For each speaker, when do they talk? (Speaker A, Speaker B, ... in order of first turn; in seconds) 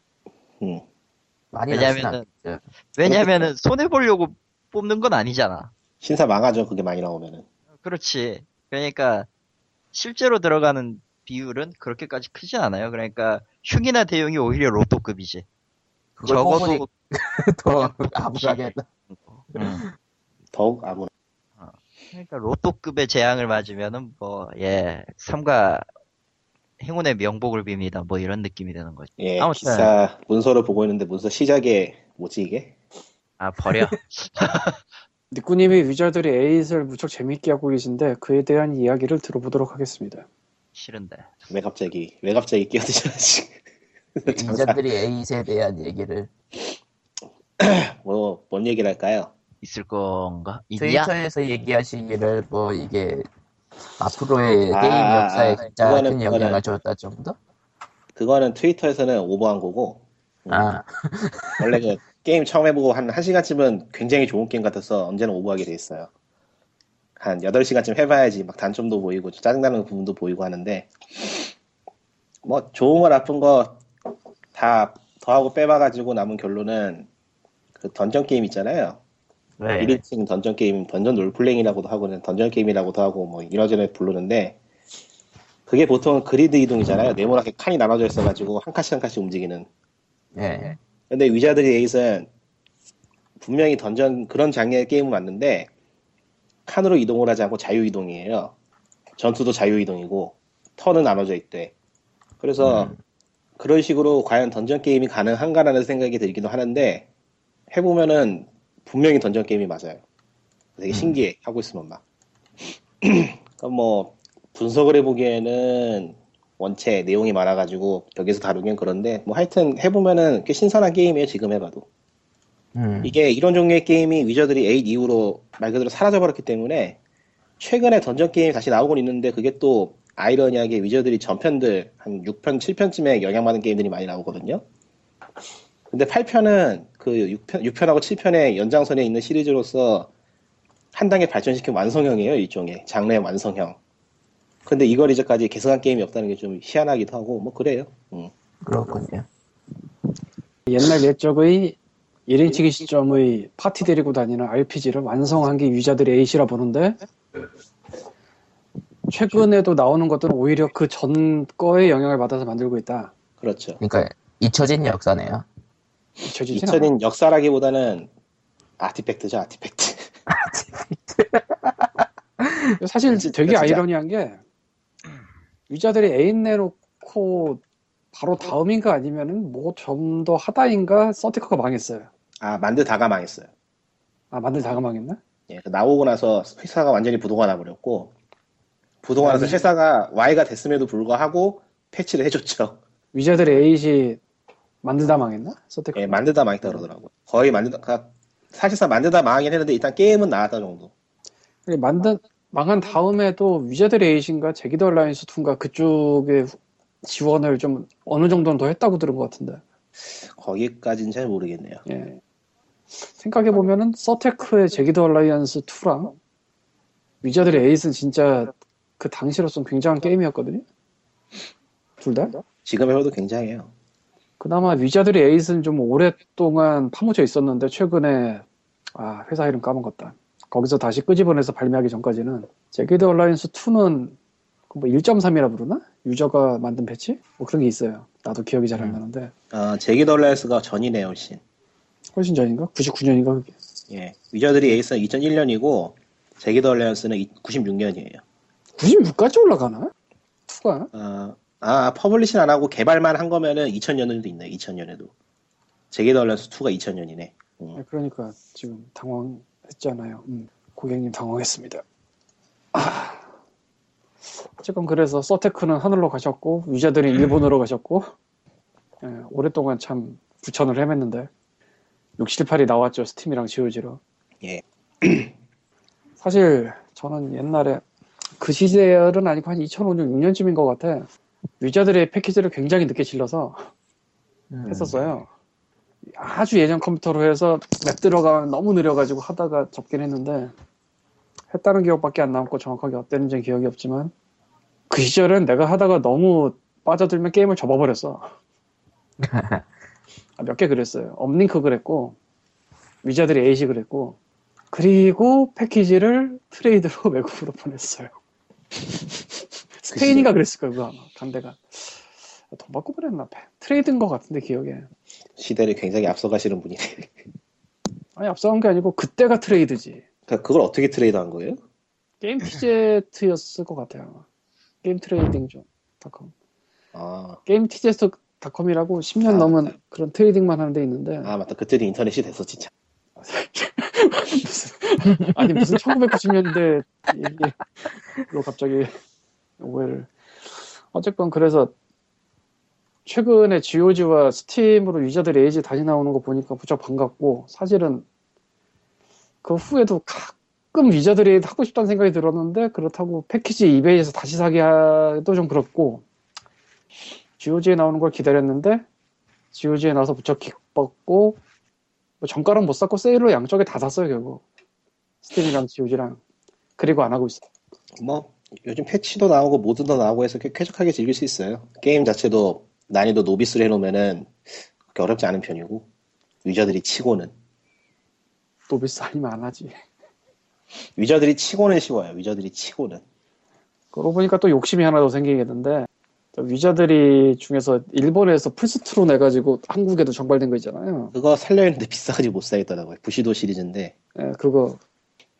Speaker A: 1.5-2.6, 16.2-18.9, 19.6-19.9, 44.3-46.3, 50.8-53.3, 54.0-57.4, 60.5-61.7, 79.6-80.0, 90.4-90.8, 102.6-103.0, 110.9-111.2, 122.8-123.1, 148.6-149.3, 163.8-165.5, 170.3-172.8, 238.8-239.0, 284.5-285.0, 299.2-299.6, 335.3-335.8
Speaker B: 1.7-2.2, 3.0-5.7, 7.8-9.3, 9.9-15.4, 16.3-16.9, 17.8-19.8, 21.6-25.9, 26.8-29.9, 33.4-34.8, 40.8-41.4, 49.6-51.1
Speaker C: 3.0-3.5, 6.0-7.5, 20.5-21.1, 29.2-32.8, 41.5-43.5, 44.2-44.8, 47.6-49.3, 54.7-56.6, 58.2-60.7, 61.6-66.1, 67.2-71.5, 72.4-73.8, 74.5-77.1, 77.8-79.0, 79.8-84.6, 85.7-89.7, 91.1-92.3, 93.4-95.7, 96.7-98.5, 99.2-101.7, 102.4-102.9, 103.6-107.1, 107.7-110.0, 110.8-112.0, 113.0-121.9, 123.0-127.0, 127.6-134.6, 135.9-140.1, 140.9-143.8, 144.7-148.3, 163.4-163.8, 166.5-168.1, 168.8-170.1, 173.1-173.8, 182.4-183.5, 185.5-188.1, 189.0-192.8, 193.4-193.7, 195.9-200.9, 210.1-211.8, 222.7-223.7, 239.5-241.4, 243.9-248.2, 250.9-255.1, 255.9-257.8, 274.4-275.3, 309.8-310.3, 315.4-317.2, 320.3-321.6, 326.9-327.4, 329.3-329.5, 331.2-332.7, 368.0-374.3, 374.9-375.9, 376.4-377.3, 381.0-383.0, 391.1-393.9
Speaker D: 35.3-40.3, 150.7-157.0, 159.1-163.1, 166.2-166.9, 172.8-174.4, 175.7-177.6, 178.1-182.1, 184.3-185.2, 189.2-189.7, 193.1-194.2, 194.8-196.8, 201.7-209.6, 211.9-212.2, 213.0-216.2, 217.2-220.6, 222.0-222.4, 224.4-234.2, 234.7-239.3, 242.1-243.6, 248.8-249.9, 250.5-250.9, 257.8-261.8, 262.7-263.2, 264.6-268.1, 269.0-271.3, 272.2-274.0, 276.2-277.8, 278.4-281.1, 281.6-283.7, 284.7-285.3, 286.1-290.5, 291.5-294.1, 294.9-298.3, 300.4-302.2, 303.0-304.2, 304.7-308.1, 309.8-312.0, 312.5-314.9, 318.2-320.0, 322.2-324.2, 324.8-326.3, 327.5-331.3, 333.2-337.7, 338.2-338.9, 339.6-340.1, 340.9-341.7, 343.1-348.1, 349.4-356.0, 357.4-358.9, 359.5-361.4, 362.2-364.4, 365.2-366.2, 366.8-367.4, 378.7-379.7, 383.9-391.1, 394.2-394.8